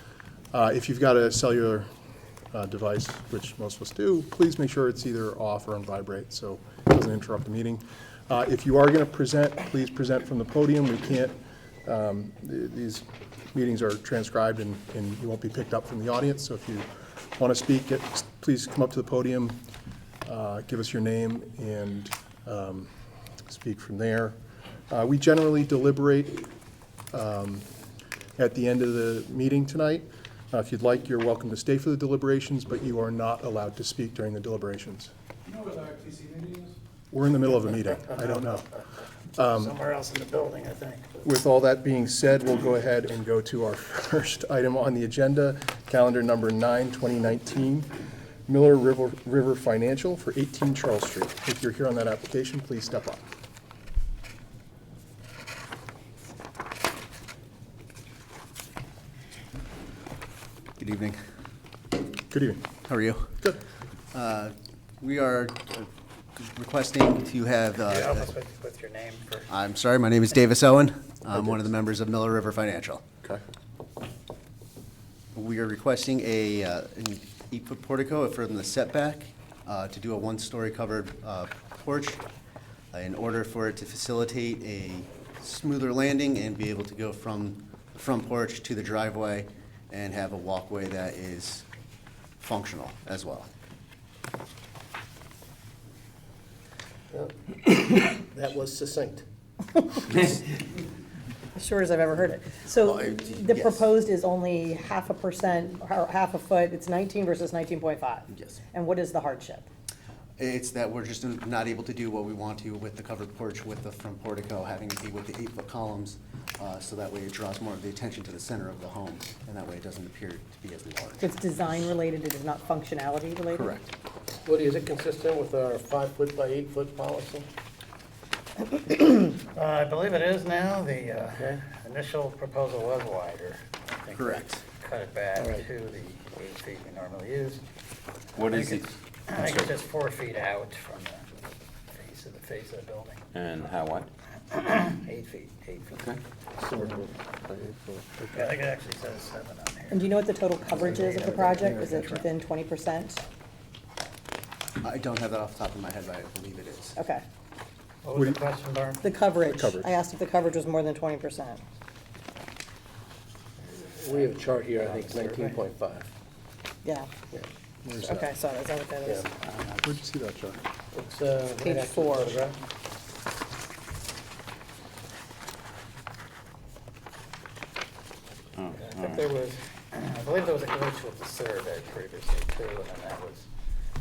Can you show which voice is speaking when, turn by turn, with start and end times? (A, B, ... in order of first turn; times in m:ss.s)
0:00.5-0:01.9 A
0:02.5-0:19.6 A
0:20.3-0:22.9 A
0:23.5-0:24.4 A
0:24.9-0:26.5 A
0:27.1-0:27.7 A
0:28.4-0:35.1 A
0:37.1-0:38.7 A
0:39.4-0:39.8 A
0:39.5-0:41.1 B
0:41.2-0:47.9 A
0:48.5-0:53.3 A
1:00.8-1:01.2 C
1:02.3-1:02.7 A
1:02.8-1:03.4 C
1:04.1-1:08.3 C
1:07.8-1:09.5 B
1:09.5-1:13.1 C
1:15.3-1:22.2 C
1:22.9-1:31.6 C
1:32.4-1:33.5 C
1:37.1-1:39.2 D
1:41.6-1:49.6 E
1:42.8-1:43.8 C
1:48.3-1:48.6 C
1:50.4-2:01.3 C
2:01.2-2:03.7 E
2:03.5-2:03.9 C
2:04.4-2:07.5 D
2:08.9-2:17.6 B
2:11.4-2:11.6 D
2:14.2-2:14.6 C
2:15.4-2:15.7 D
2:18.4-2:19.7 F
2:18.4-2:21.3 B
2:21.9-2:23.2 B
2:23.3-2:24.1 F
2:24.5-2:26.1 B
2:26.0-2:26.2 F
2:26.6-2:27.1 D
2:26.8-2:28.4 A
2:28.3-2:30.2 B
2:29.9-2:33.2 E
2:30.8-2:32.3 B
2:34.8-2:37.0 C
2:37.0-2:37.2 E
2:38.0-2:39.1 B
2:39.0-2:41.6 E
2:39.4-2:39.9 A
2:43.8-2:46.1 D
2:44.8-2:45.6 B
2:46.8-2:47.1 E
2:47.8-2:48.3 A
2:47.9-2:49.3 E
2:49.8-2:50.6 A
2:50.9-2:52.6 D
2:51.6-2:52.4 E
2:58.6-2:59.3 F
2:58.7-3:03.5 B